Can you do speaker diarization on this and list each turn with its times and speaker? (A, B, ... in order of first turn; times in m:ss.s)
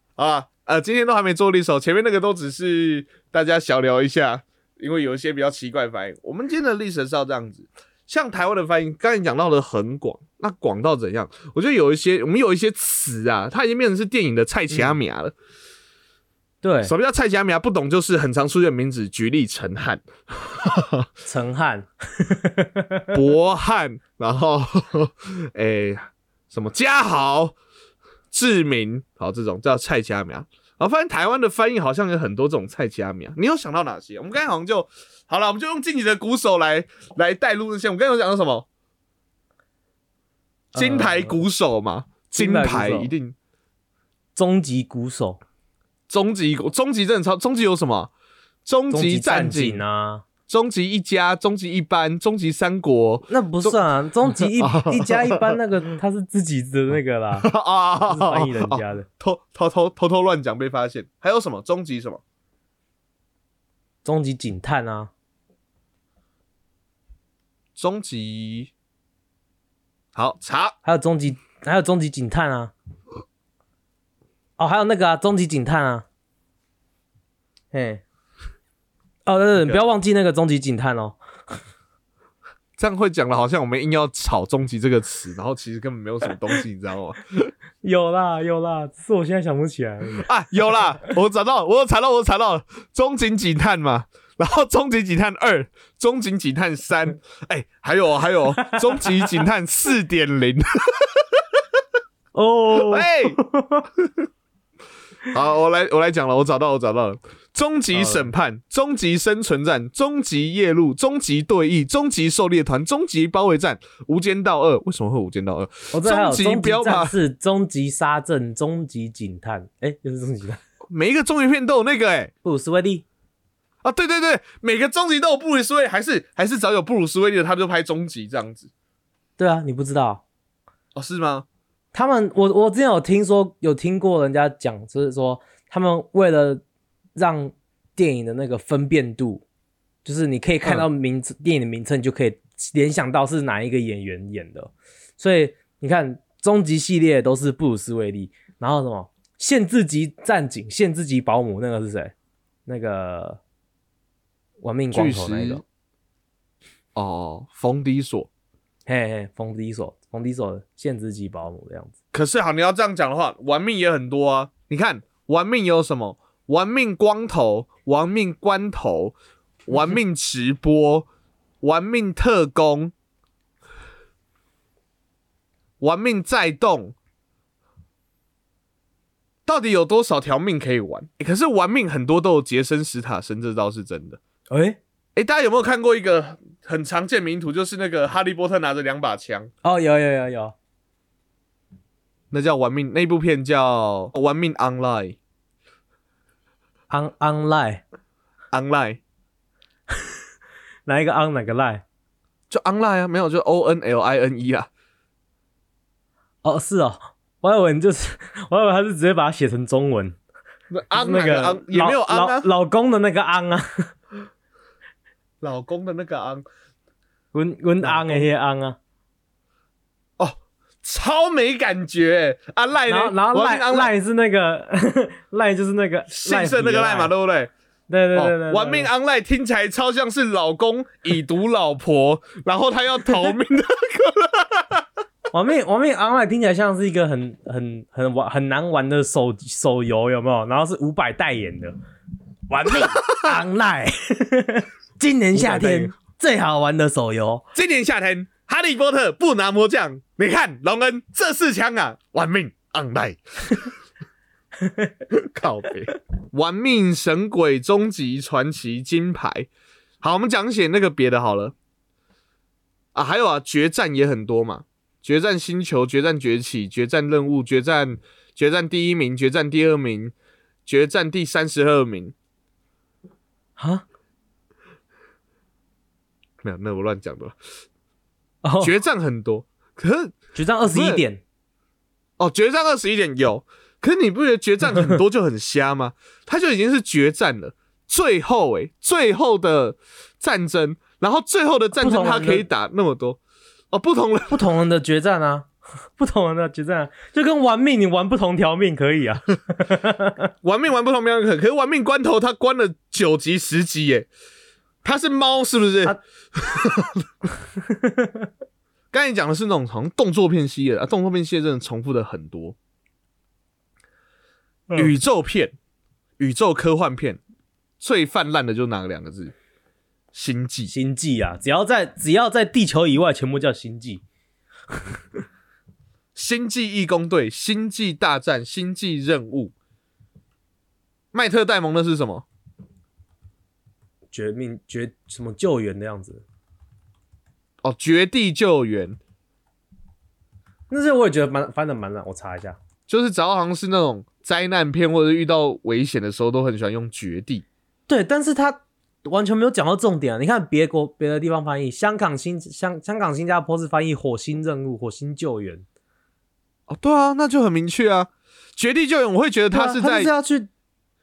0:00.2-0:15.3 A
0:14.7-0:15.0 B
0:16.6-0:16.9 B
0:16.8-0:21.0 A
0:21.2-0:23.1 B
0:23.1-0:27.5 A
0:28.3-0:38.7 A
0:40.7-0:41.4 B
0:40.7-0:43.3 A
0:42.4-0:43.1 B
0:44.4-0:45.4 B
0:46.1-0:48.1 A
0:48.6-0:49.8 A
0:48.9-0:50.2 B
0:50.5-0:53.8 A
0:53.3-0:57.5 B
0:54.3-0:55.6 A
0:57.4-1:02.2 A
0:58.1-0:59.1 B
1:04.0-1:05.1 B
1:07.8-1:08.7 A
1:10.1-1:10.8 A
1:10.8-1:12.7 B
1:14.6-1:16.0 B
1:17.7-1:18.0 B
1:19.2-1:21.2 B
1:22.8-1:27.5 A
1:27.8-1:30.3 B
1:30.2-1:41.4 A
1:38.6-1:39.3 B
1:42.3-1:43.8 B
1:42.7-1:43.4 A
1:45.3-1:57.1 A
1:47.9-1:48.3 B
1:55.9-2:00.6 B
2:00.9-2:02.3 A
2:02.4-2:03.0 B
2:03.8-2:08.7 A
2:09.4-2:10.2 B
2:10.9-2:11.4 A
2:11.9-2:16.6 B
2:17.2-2:19.4 B
2:20.0-2:32.1 B
2:32.6-2:33.4 B
2:34.6-2:35.6 B
2:34.9-2:35.6 A
2:37.0-2:38.3 A
2:38.9-2:41.9 B
2:42.1-2:49.2 A
2:49.7-2:51.1 A
2:51.6-2:52.9 A
2:55.8-2:56.9 A
2:59.4-3:04.2 A
3:04.5-3:04.8 B
3:05.2-3:09.5 A
3:09.6-3:10.5 B
3:12.3-3:15.2 A
3:16.9-3:17.8 B
3:18.5-3:19.0 A
3:20.8-3:21.8 B
3:22.5-3:24.7 A
3:26.4-3:30.2 B
3:30.7-3:32.5 A
3:30.9-3:33.9 B
3:35.4-3:36.4 A
3:37.3-3:38.8 B
3:37.8-3:38.3 A
3:40.2-3:43.9 A
3:42.9-3:47.1 B
3:46.1-3:47.5 A
3:47.9-3:48.9 B
3:48.1-3:54.8 A
3:55.3-4:01.7 B
4:02.5-4:07.4 B
4:05.3-4:05.9 A
4:07.5-4:13.7 A
4:14.6-4:14.9 B
4:15.1-4:19.5 A
4:20.0-4:21.5 A
4:22.9-4:30.1 A
4:30.6-4:32.1 A
4:33.6-4:33.8 B
4:36.4-4:37.4 A
4:38.4-4:38.7 B
4:38.6-4:40.2 A
4:40.3-4:41.2 B
4:40.7-4:41.0 A
4:42.2-4:53.2 A
4:51.8-4:52.4 B
4:53.7-4:54.5 A
4:54.3-5:00.2 B
5:00.4-5:04.1 A
5:04.8-5:07.0 A
5:07.7-5:08.2 B
5:08.9-5:12.6 A
5:14.7-5:15.5 A
5:16.2-5:17.2 A
5:17.8-5:19.3 A
5:20.1-5:20.7 A
5:20.7-5:24.0 B
5:26.1-5:29.5 A
5:31.1-5:32.2 A
5:34.1-5:36.2 B
5:37.6-5:39.0 A
5:40.7-5:42.6 B
5:42.9-5:47.4 A
5:47.9-5:55.6 B
5:56.7-6:00.1 A
5:59.5-6:00.5 B